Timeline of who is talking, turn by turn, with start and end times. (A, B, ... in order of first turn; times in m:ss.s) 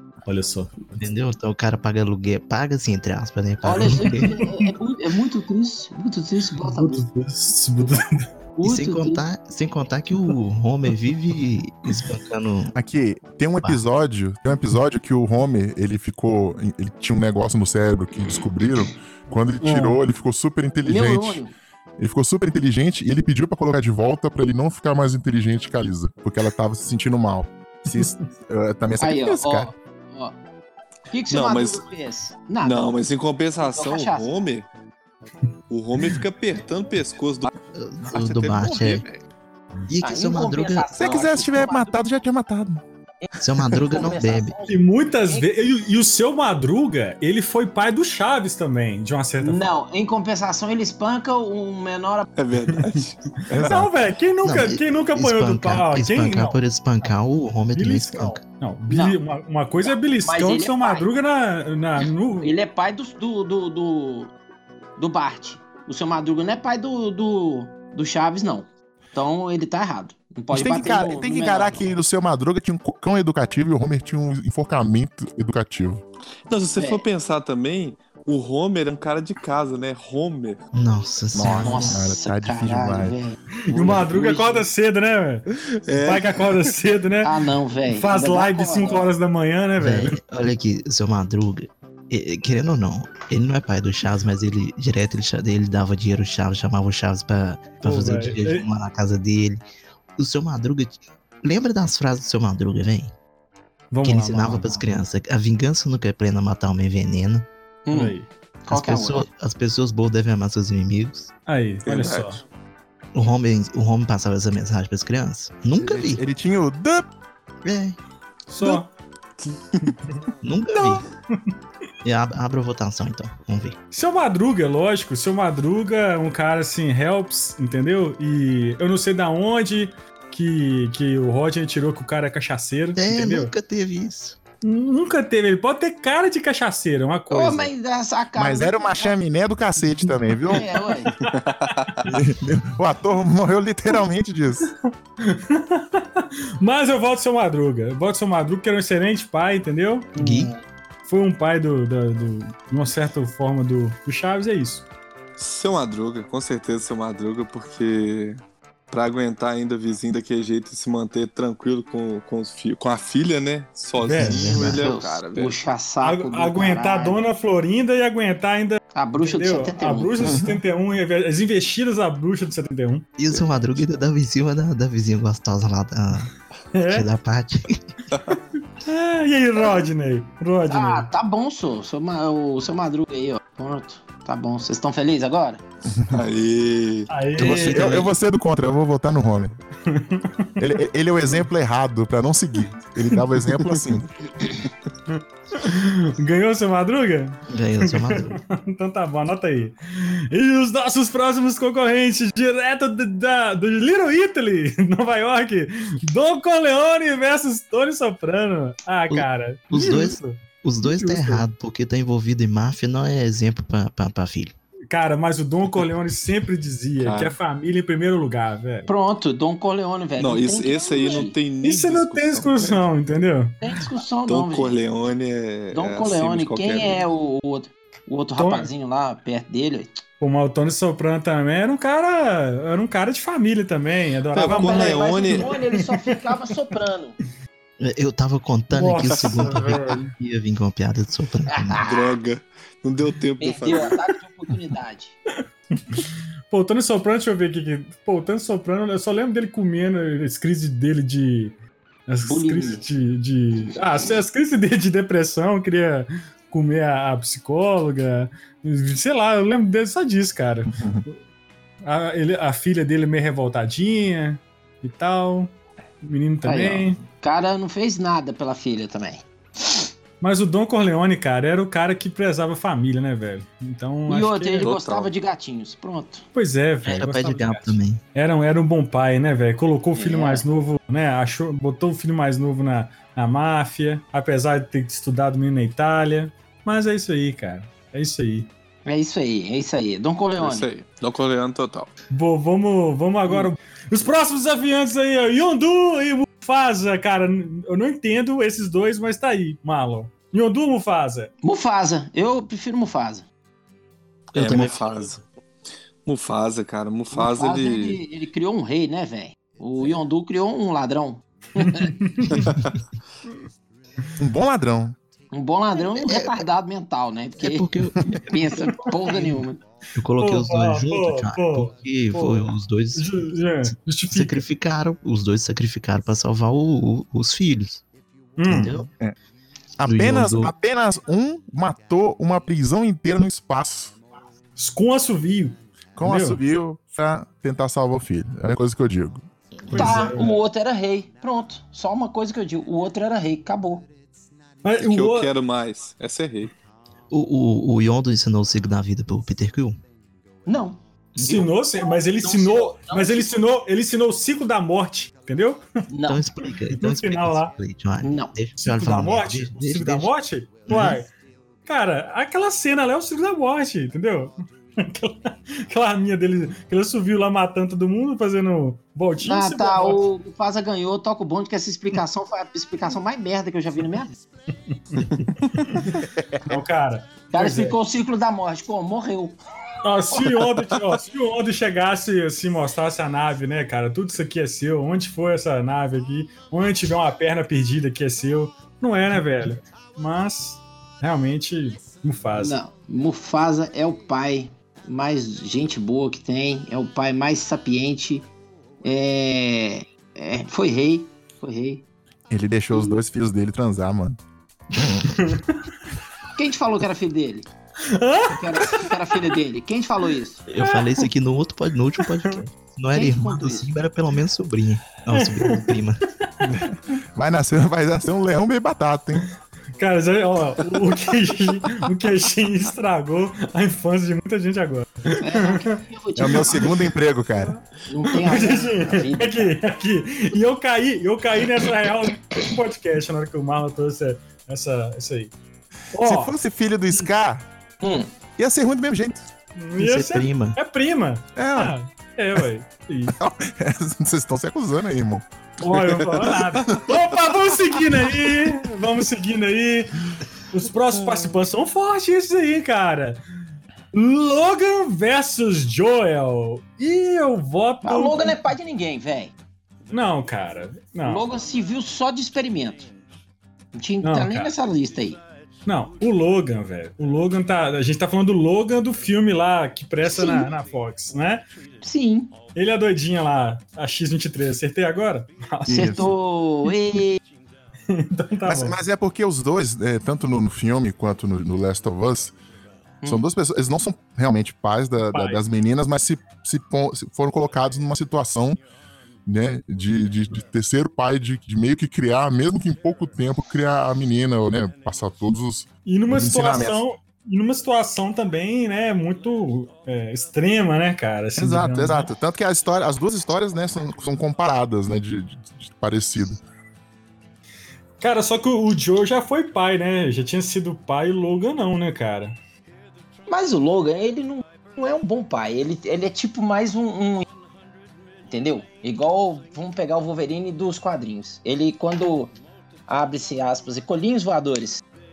0:00.2-0:00.8 A
0:00.9-0:04.4 B
0:03.6-0:07.0 C
0:04.0-0:04.6 A
0:06.6-0:08.2 A
0:08.6-0:09.2 C
0:08.6-0:12.7 B
0:12.7-0:21.4 D
0:19.6-0:20.0 A
0:20.8-0:21.5 C
0:22.0-0:29.7 D
0:29.0-0:30.4 C
0:31.1-0:33.0 C
0:31.3-0:31.8 E
0:32.6-0:34.7 E
0:33.6-0:34.3 C
0:35.7-0:37.5 E
0:37.7-0:39.0 B
0:38.1-0:39.2 E
0:39.9-0:40.9 B
0:40.0-0:42.0 C
0:41.0-0:42.8 D
0:43.2-0:45.5 C
0:43.4-0:44.5 B
0:44.7-0:49.6 A
0:49.4-0:52.2 C
0:52.4-0:53.2 E
0:53.5-0:53.9 D
0:53.6-0:56.6 A
0:54.4-0:58.4 B
0:57.7-1:02.5 A
0:58.9-0:59.2 C
0:59.8-1:01.0 C
1:02.0-1:04.3 C
1:05.0-1:11.9 C
1:10.5-1:16.0 D
1:16.5-1:20.6 E
1:16.7-1:17.0 C
1:20.7-1:22.0 B
1:21.3-1:23.1 D
1:21.6-1:24.7 C
1:23.7-1:30.2 A
1:25.5-1:26.7 E
1:27.2-1:29.1 C
1:29.8-1:39.6 B
1:37.8-1:38.6 A
1:40.2-1:43.1 B
1:43.9-1:44.8 A
1:44.0-1:47.5 B
1:47.9-1:49.3 C
1:47.9-1:48.3 A
1:48.7-1:51.3 B
1:51.5-1:52.4 A
1:51.8-1:52.4 E
1:53.1-1:56.2 B
1:55.8-1:57.1 D
1:57.6-1:58.0 B
1:58.5-1:58.9 A
1:59.4-1:59.9 E
2:00.4-2:01.0 B
2:00.7-2:01.0 D
2:02.0-2:03.8 B
2:03.9-2:13.5 A
2:13.0-2:14.4 B
2:14.6-2:17.7 A
2:17.3-2:19.1 C
2:18.4-2:20.7 D
2:20.5-2:21.1 C
2:21.2-2:21.9 A
2:21.3-2:22.0 E
2:22.0-2:24.7 D
2:24.6-2:34.9 A
2:30.2-2:30.5 B
2:35.4-2:38.4 E
2:38.9-2:45.5 E
2:44.0-2:44.5 A
2:44.1-2:44.9 B
2:44.6-2:47.2 C
2:46.0-2:53.0 A
2:48.9-2:50.2 C
2:50.2-2:50.6 D
2:53.2-2:56.3 B
2:56.7-2:57.1 A
2:56.9-2:57.8 B
2:58.8-3:01.1 A
3:00.7-3:05.6 C
3:06.1-3:07.1 E
3:07.1-3:08.0 A
3:07.4-3:08.1 B
3:07.4-3:09.6 D
3:09.9-3:10.5 A
3:10.6-3:14.1 D
3:15.1-3:31.4 A
3:17.5-3:18.4 B
3:29.1-3:34.5 B
3:34.9-3:38.9 A
3:37.0-3:37.4 E
3:38.9-3:41.4 C
3:40.2-3:42.8 E
3:41.6-3:43.7 A
3:43.6-3:44.8 C
3:44.3-3:47.0 E
3:45.7-3:50.0 C
3:48.4-3:48.7 A
3:50.2-3:56.1 A
3:54.3-3:55.5 E
3:54.4-3:57.2 C
3:57.8-4:01.8 B
3:58.7-4:00.0 A
4:01.5-4:02.2 C
4:01.8-4:04.0 E
4:03.4-4:05.2 C
4:05.9-4:11.5 A
4:12.1-4:21.1 A
4:12.2-4:12.8 C
4:20.7-4:21.0 D
4:21.8-4:27.0 A
4:26.4-4:29.8 C
4:30.2-4:34.7 A
4:34.1-4:36.2 C
4:34.6-4:35.1 E
4:36.3-4:48.5 A
4:36.8-4:38.0 B
4:39.9-4:40.4 C
4:48.8-4:50.7 C
4:50.4-4:51.9 E
4:52.1-5:01.3 A
5:01.4-5:03.2 C
5:04.3-5:05.2 E
5:04.3-5:05.1 B
5:06.0-5:08.0 E
5:07.1-5:11.9 C
5:11.6-5:12.4 A
5:12.4-5:12.7 E
5:14.2-5:15.0 D
5:15.3-5:19.6 C
5:17.4-5:18.2 B
5:18.9-5:19.4 A
5:19.9-5:27.8 B
5:20.2-5:24.4 A
5:28.4-5:28.8 A
5:28.4-5:28.9 B
5:29.8-5:33.9 D
5:29.8-5:30.5 B
5:34.6-5:36.4 A
5:36.0-5:39.2 D
5:39.7-5:40.4 A
5:39.7-5:43.9 C
5:44.6-5:45.3 A
5:44.8-5:46.5 E
5:47.1-5:49.8 B
5:50.5-5:51.5 C
5:51.2-5:51.4 B
5:51.2-5:55.6 A
5:52.0-5:53.4 C
5:55.9-5:56.2 C
5:56.0-6:00.1 B
5:56.7-5:57.5 A
5:58.0-5:58.3 C
5:58.6-6:01.1 A
6:00.7-6:01.0 B
6:01.6-6:10.0 A
6:09.2-6:14.1 C
6:14.7-6:15.9 A
6:15.9-6:16.5 D
6:16.5-6:17.8 A
6:17.3-6:19.4 C
6:19.8-6:32.6 A
6:32.4-6:38.3 C
6:38.8-6:41.8 C
6:42.3-6:44.2 D
6:44.7-6:45.3 D
6:46.3-6:47.5 C
6:47.8-6:48.9 A
6:48.3-6:50.4 C
6:50.5-6:56.0 B
6:50.6-6:51.1 A
6:52.1-6:52.4 A
6:52.9-6:53.7 C
6:55.1-6:55.8 A
6:57.1-6:59.3 D
6:59.8-7:05.8 A
7:05.2-7:06.8 C
7:06.2-7:07.6 D
7:07.8-7:09.5 C
7:08.0-7:15.3 A
7:15.9-7:16.4 A
7:16.0-7:17.4 D
7:17.8-7:18.1 C
7:18.4-7:19.2 D
7:19.6-7:23.1 A
7:19.8-7:20.6 B
7:21.4-7:21.7 D
7:23.2-7:25.2 D
7:25.6-7:33.2 A
7:26.0-7:26.8 E
7:33.9-7:38.4 A
7:37.8-7:39.3 C
7:39.9-7:41.2 A
7:41.0-7:42.9 C
7:43.7-7:45.2 C
7:44.0-7:44.5 A
7:45.6-7:51.4 A
7:50.0-7:50.5 C
7:51.8-7:52.3 C
7:52.5-7:56.1 A
7:55.7-7:57.2 C
7:55.7-7:56.0 D
7:57.9-7:58.8 A
7:58.4-8:02.3 D
8:03.0-8:08.6 D
8:05.1-8:05.4 A
8:09.2-8:16.8 D
8:15.8-8:22.1 A
8:21.4-8:26.4 D
8:28.0-8:32.4 A
8:33.3-8:37.3 C
8:38.3-8:42.3 C
8:42.9-8:44.8 C